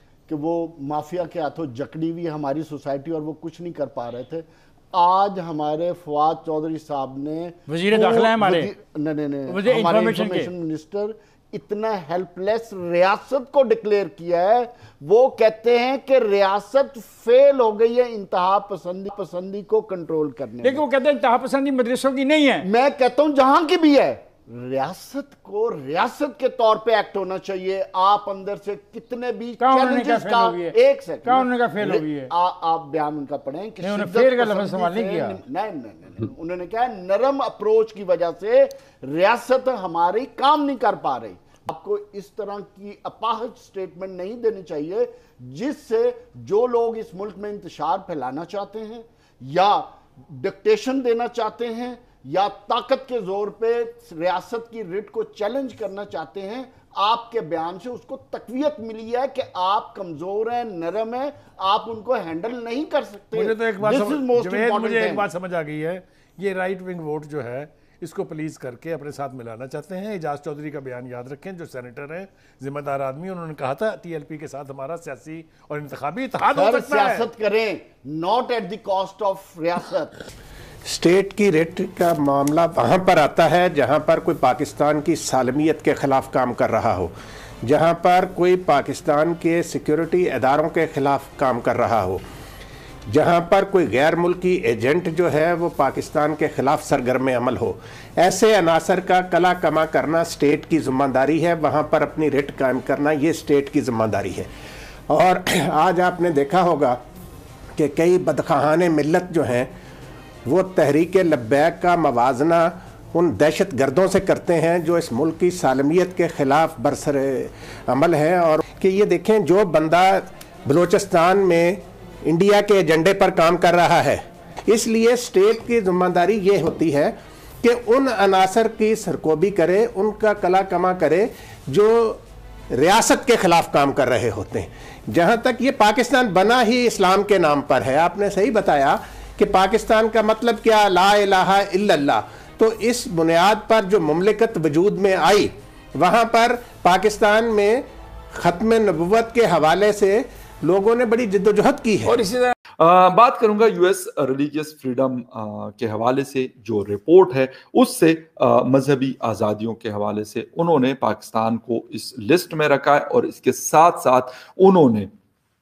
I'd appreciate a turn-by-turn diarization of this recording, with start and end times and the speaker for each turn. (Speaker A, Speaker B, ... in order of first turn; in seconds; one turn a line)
Speaker A: 0.3-20.9
Speaker B: 7.7-8.7
Speaker B: 9.5-10.5
Speaker B: 20.6-22.7
Speaker A: 22.6-65.3
Speaker B: 29.6-32.3
Speaker B: 33.8-35.4
Speaker C: 63.3-77.3
Speaker A: 76.5-80.3
Speaker D: 80.8-87.1
Speaker D: 87.6-92.2
Speaker D: 93.1-104.5
Speaker D: 105.1-107.0
Speaker D: 107.8-109.7
Speaker D: 110.5-152.2
Speaker E: 152.8-165.1